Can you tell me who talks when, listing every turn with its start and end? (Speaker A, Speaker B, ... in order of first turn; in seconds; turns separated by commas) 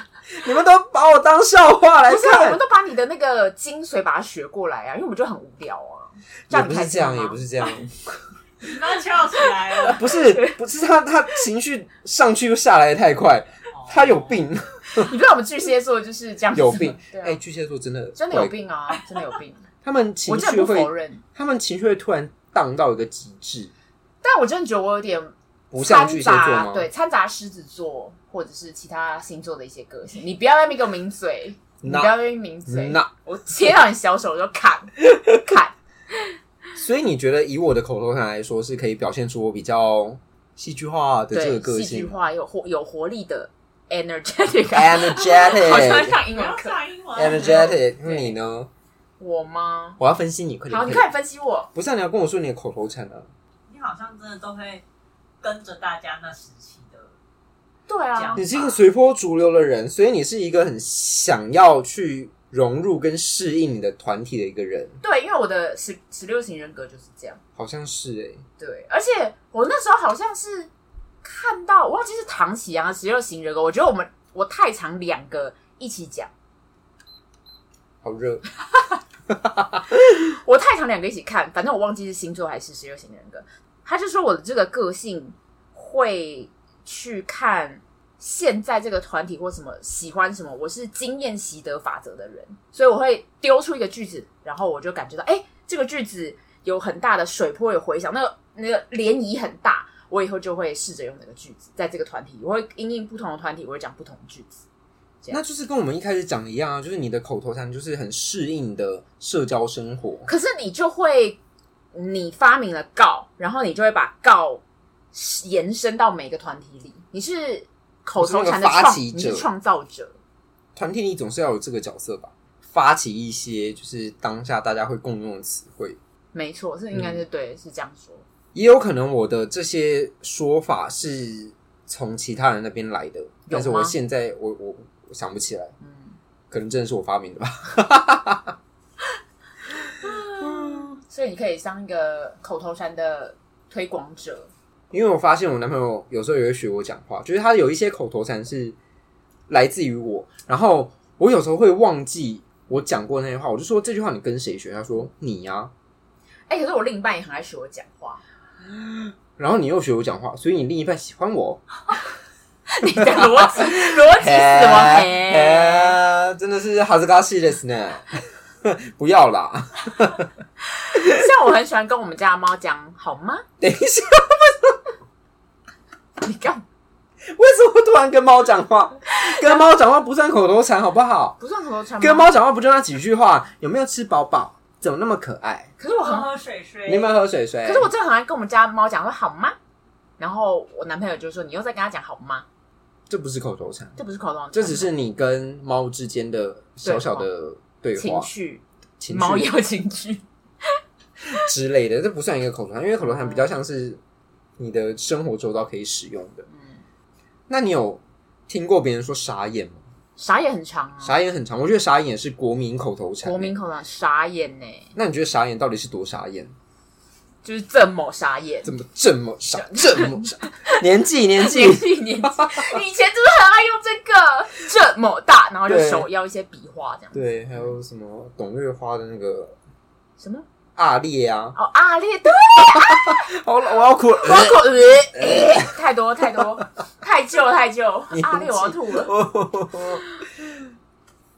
Speaker A: 0.3-2.6, Speaker B: 2.1-7.7, Speaker A: 6.5-8.2, Speaker C: 8.6-10.1, Speaker B: 9.8-10.6, Speaker A: 9.9-15.1, Speaker C: 13.8-14.4, Speaker B: 14.9-17.4, Speaker A: 16.5-18.5, Speaker B: 18.1-19.6, Speaker A: 19.8-23.7, Speaker B: 20.2-21.2, Speaker B: 24.2-35.7, Speaker A: 25.7-26.9, Speaker A: 31.8-32.1, Speaker A: 32.7-33.1, Speaker A: 36.8-42.2, Speaker B: 41.3-48.3, Speaker A: 44.7-46.2, Speaker C: 46.3-47.7, Speaker A: 47.1-48.7, Speaker B: 49.2-50.0, Speaker A: 50.0-51.1, Speaker B: 50.7-51.7, Speaker A: 51.7-53.3, Speaker C: 53.7-54.8, Speaker C: 55.4-57.1, Speaker B: 57.9-58.7, Speaker C: 58.1-58.5, Speaker A: 58.4-65.0, Speaker B: 65.0-67.4, Speaker A: 67.6-68.4, Speaker B: 68.6-70.7, Speaker B: 71.2-76.3, Speaker A: 78.0-78.4, Speaker A: 79.3-79.9, Speaker B: 80.1-104.6, Speaker A: 105.3-110.3, Speaker B: 110.2-111.4, Speaker B: 111.9-114.6, Speaker B: 115.1-120.2, Speaker A: 118.2-119.5, Speaker A: 120.7-126.0, Speaker B: 126.3-128.2, Speaker A: 128.5-135.7, Speaker B: 133.5-133.9, Speaker B: 135.8-136.2, Speaker A: 136.5-138.5, Speaker B: 140.0-144.5, Speaker A: 140.1-140.9, Speaker A: 144.9-148.8, Speaker A: 149.5-155.7, Speaker B: 156.5-158.2, Speaker A: 158.6-161.6, Speaker B: 162.7-166.0, Speaker A: 163.0-170.3, Speaker B: 170.8-173.4, Speaker A: 170.9-171.2, Speaker A: 173.6-174.8, Speaker B: 176.2-176.6, Speaker A: 177.3-181.4, Speaker B: 179.2-179.6, Speaker B: 181.4-182.3, Speaker A: 182.0-185.7, Speaker B: 185.8-186.3, Speaker C: 185.8-187.2, Speaker A: 186.8-187.9, Speaker B: 187.6-189.6, Speaker B: 190.2-192.4, Speaker A: 193.1-194.0, Speaker B: 194.0-194.9, Speaker A: 194.5-198.3, Speaker B: 196.8-197.3, Speaker B: 198.0-200.2, Speaker A: 199.0-199.5, Speaker A: 201.3-204.0, Speaker B: 203.1-203.4, Speaker A: 204.6-206.4, Speaker B: 206.5-206.8, Speaker A: 207.5-209.8, Speaker B: 210.2-211.2, Speaker A: 211.0-213.5, Speaker B: 213.2-214.9, Speaker A: 214.9-216.5, Speaker B: 217.4-218.7, Speaker A: 218.6-222.8, Speaker B: 219.6-220.8, Speaker B: 221.4-227.2, Speaker A: 225.7-226.1, Speaker A: 227.1-229.6, Speaker B: 230.2-230.4, Speaker A: 230.8-231.6, Speaker B: 231.5-233.2, Speaker A: 232.7-235.7, Speaker B: 234.2-239.1, Speaker A: 238.1-240.7